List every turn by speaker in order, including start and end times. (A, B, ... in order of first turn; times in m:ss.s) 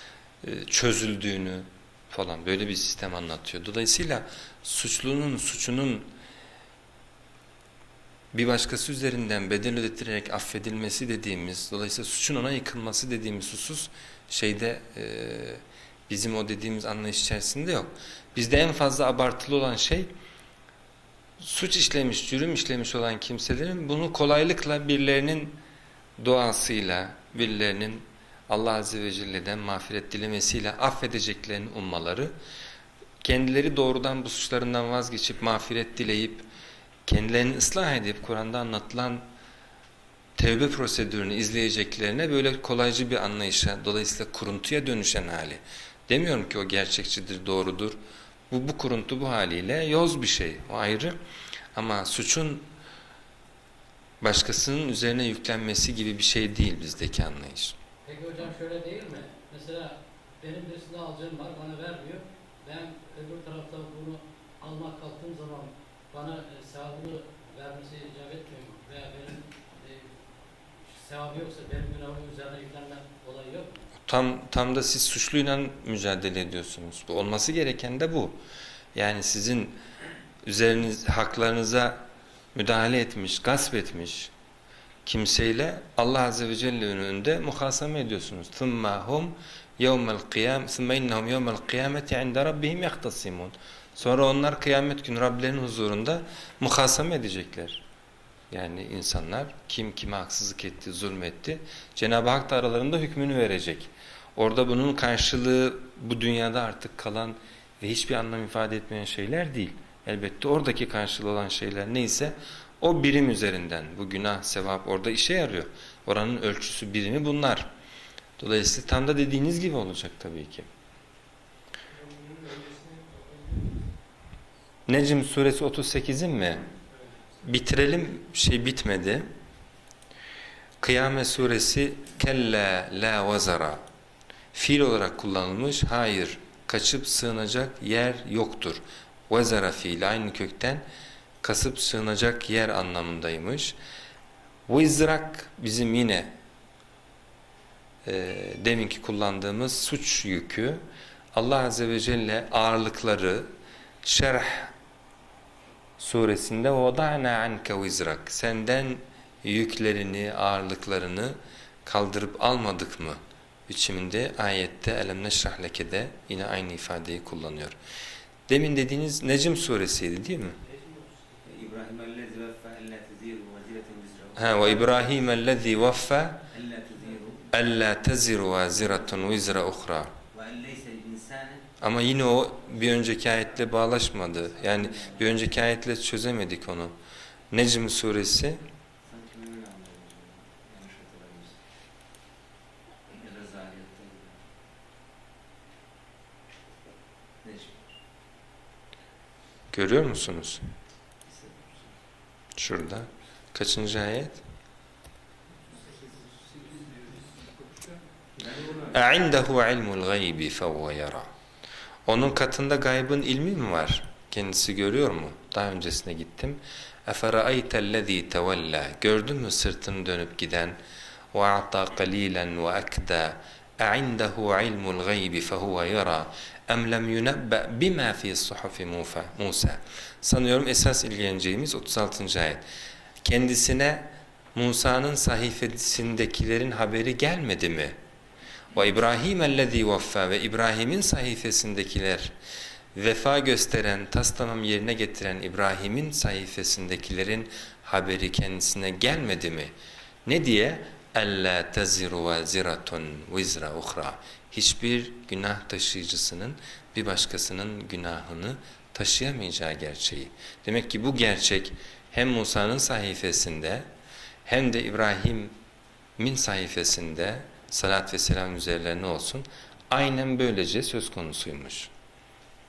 0:00.4-0:06.1 A
0:08.3-0:20.1 A
0:21.4-0:25.6 A
0:26.2-0:32.3 A
0:33.2-0:36.4 A
0:37.0-0:39.2 A
0:40.4-0:48.0 A
0:48.5-0:51.2 A
0:51.7-0:52.7 A
0:54.2-0:57.8 A
0:58.0-1:10.2 B
1:10.8-1:13.8 B
1:14.0-1:18.4 A
1:18.9-1:19.8 A
1:20.4-1:22.0 A
1:22.5-1:24.3 A
1:25.0-1:37.8 A
1:38.5-1:57.7 A
1:58.4-2:00.7 A
2:02.1-2:03.6 B
2:04.9-2:06.6 A
2:07.4-2:09.3 A
2:10.8-2:13.8 A
2:14.5-2:20.8 A
2:21.4-2:23.8 A
2:24.7-2:26.3 A
2:28.0-2:30.8 A
2:31.3-2:33.5 A
2:34.0-2:34.7 A
2:36.0-2:47.8 A
2:48.5-2:50.6 A
2:51.4-2:55.3 C
2:54.4-2:56.4 A
2:56.5-2:57.5 C
2:57.5-3:00.1 A
3:00.3-3:01.7 C
3:01.8-3:07.0 A
3:04.8-3:05.2 C
3:07.5-3:08.6 A
3:09.0-3:11.6 C
3:13.1-3:14.4 C
3:17.4-3:17.8 C
3:19.7-3:20.6 A
3:21.3-3:21.9 C
3:22.6-3:24.4 A
3:28.4-3:28.9 C
3:28.9-3:31.3 A
3:32.0-3:40.8 A
3:41.3-3:52.6 A
3:53.2-3:58.0 A
3:58.7-4:02.3 A
4:02.9-4:09.7 A
4:10.2-4:23.8 A
4:24.4-4:25.5 A
4:26.2-4:31.9 A